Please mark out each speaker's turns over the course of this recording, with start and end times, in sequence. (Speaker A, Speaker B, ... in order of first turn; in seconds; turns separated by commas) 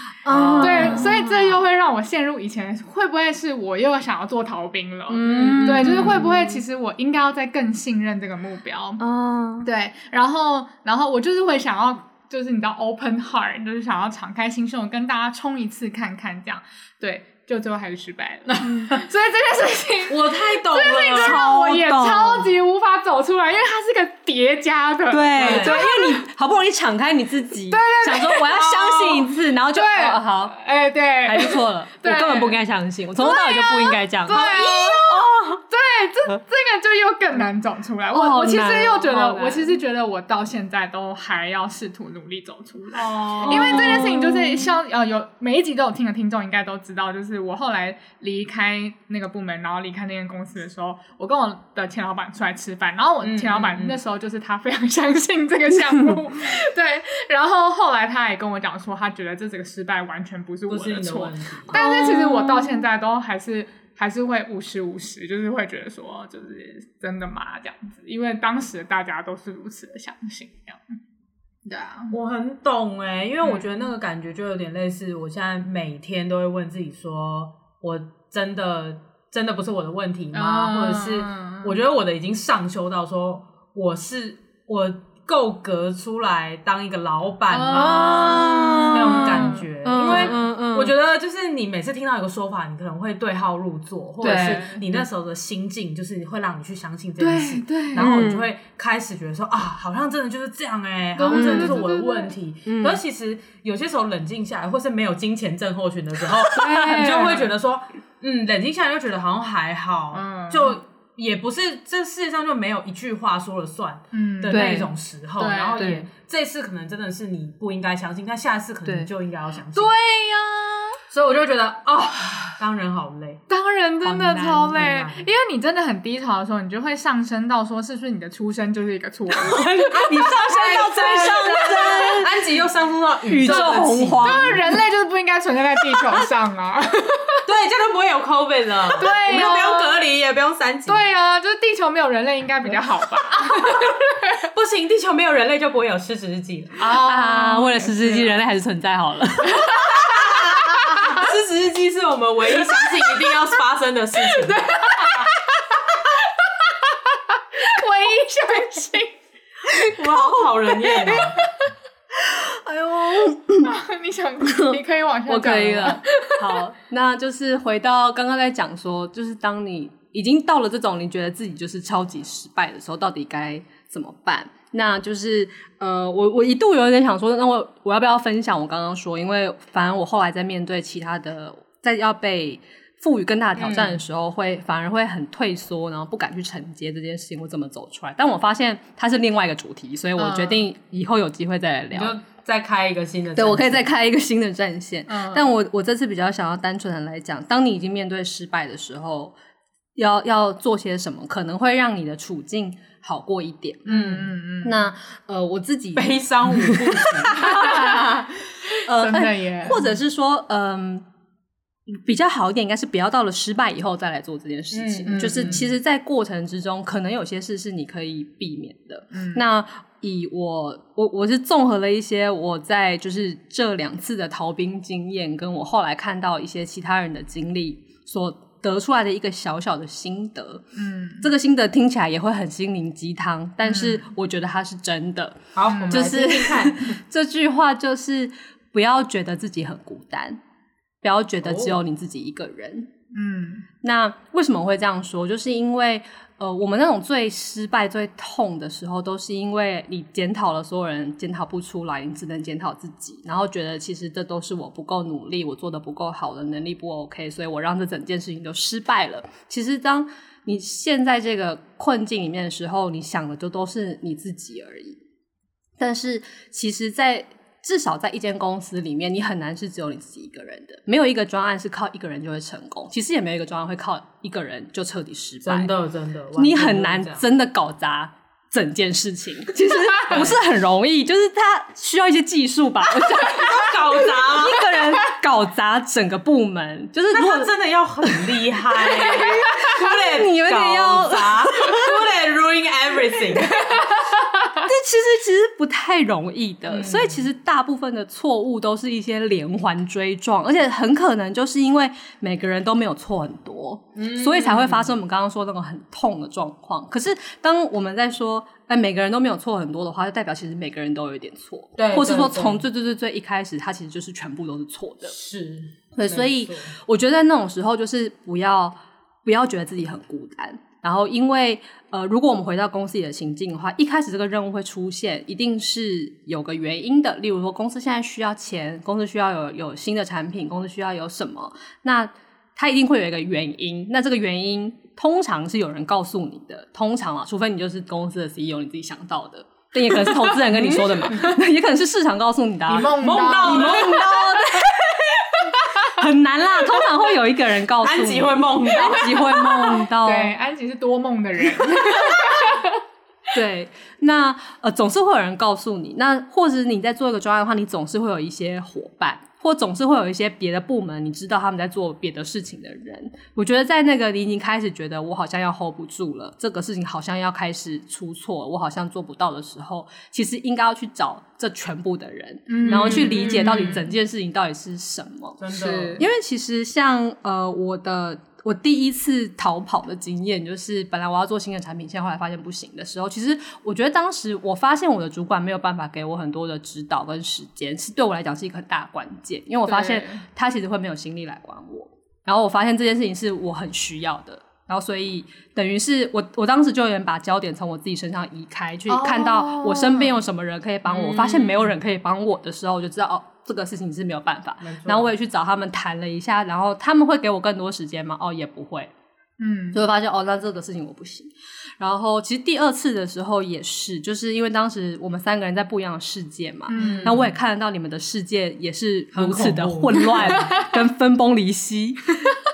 Speaker A: 0.2-1.6, Speaker B: 0.3-1.2, Speaker C: 0.6-9.0, Speaker A: 5.1-6.6, Speaker B: 5.2-6.2, Speaker A: 9.0-9.7, Speaker C: 9.6-26.2, Speaker B: 18.5-19.0, Speaker B: 20.1-21.4, Speaker A: 21.1-22.5, Speaker A: 25.1-30.6, Speaker B: 25.4-25.8, Speaker C: 27.7-32.6, Speaker A: 31.2-35.6, Speaker C: 33.2-70.8, Speaker B: 34.3-35.3, Speaker A: 38.1-39.8, Speaker B: 42.9-44.1, Speaker A: 43.4-44.7, Speaker B: 53.2-54.0, Speaker B: 60.7-61.8, Speaker A: 61.7-62.8, Speaker C: 71.7-72.1, Speaker B: 72.1-119.9, Speaker C: 80.3-81.8, Speaker C: 87.5-90.3, Speaker A: 87.7-90.9, Speaker A: 94.2-94.8, Speaker C: 94.2-94.8, Speaker C: 97.2-98.1, Speaker A: 97.9-98.5, Speaker C: 101.2-102.3, Speaker A: 101.3-101.8, Speaker A: 102.6-103.0, Speaker A: 106.5-107.3, Speaker C: 106.7-107.5, Speaker C: 110.1-110.8, Speaker C: 114.1-116.0, Speaker A: 114.5-114.9, Speaker A: 115.8-116.1, Speaker A: 118.8-119.1, Speaker C: 119.7-121.0, Speaker B: 121.1-123.4, Speaker C: 123.5-132.2, Speaker A: 124.0-124.7, Speaker B: 124.7-125.3, Speaker A: 129.4-132.3, Speaker B: 129.9-134.6, Speaker A: 133.3-134.7, Speaker C: 133.4-137.4, Speaker B: 137.4-141.0, Speaker C: 139.0-140.0, Speaker C: 140.9-144.4, Speaker B: 144.5-146.8, Speaker C: 146.8-148.3, Speaker A: 146.8-149.7, Speaker C: 149.5-150.1, Speaker B: 149.8-155.3, Speaker C: 150.7-151.2, Speaker C: 154.2-155.8, Speaker C: 156.4-159.2, Speaker B: 159.9-161.4, Speaker C: 160.7-161.5, Speaker A: 162.2-163.7, Speaker C: 163.6-166.6, Speaker A: 164.5-192.2, Speaker B: 183.6-184.0, Speaker C: 190.2-190.6, Speaker B: 191.9-193.9, Speaker A: 193.3-199.3, Speaker C: 195.1-195.4, Speaker A: 199.9-203.9, Speaker C: 203.8-204.8, Speaker B: 203.9-204.3, Speaker A: 204.6-206.7, Speaker B: 205.9-207.7, Speaker A: 207.3-208.2, Speaker C: 207.4-208.0, Speaker C: 208.7-209.8, Speaker A: 208.8-211.0, Speaker A: 211.9-230.6, Speaker B: 214.7-215.7, Speaker C: 215.1-215.7, Speaker C: 219.1-219.4, Speaker C: 230.8-231.3, Speaker A: 231.2-240.4, Speaker C: 233.6-234.0, Speaker B: 235.5-236.9, Speaker C: 235.7-236.0, Speaker A: 241.0-242.9, Speaker B: 241.4-241.8, Speaker C: 243.1-243.7, Speaker A: 243.8-265.0, Speaker A: 265.8-275.7, Speaker B: 275.4-277.2, Speaker A: 276.4-287.5, Speaker B: 280.1-280.4, Speaker B: 283.2-284.6, Speaker B: 287.1-293.8, Speaker A: 288.9-291.9, Speaker C: 293.6-293.9, Speaker A: 294.5-315.1, Speaker B: 296.7-297.3, Speaker B: 303.9-304.9, Speaker B: 311.8-312.6, Speaker B: 315.0-316.7, Speaker A: 315.9-345.0, Speaker C: 340.0-341.3, Speaker C: 342.7-344.2, Speaker B: 342.9-344.0, Speaker A: 345.9-350.3, Speaker B: 347.8-349.2, Speaker C: 349.1-352.8, Speaker A: 351.9-352.2, Speaker A: 353.3-375.4, Speaker C: 372.5-373.8, Speaker B: 372.6-373.8, Speaker B: 375.4-376.1, Speaker C: 375.5-376.0, Speaker A: 375.9-408.9, Speaker C: 389.6-390.2, Speaker C: 398.9-400.1, Speaker C: 400.9-401.6, Speaker B: 404.6-405.1, Speaker C: 409.4-409.8, Speaker A: 409.7-422.1, Speaker C: 416.7-417.2, Speaker B: 416.7-417.3, Speaker B: 419.1-420.5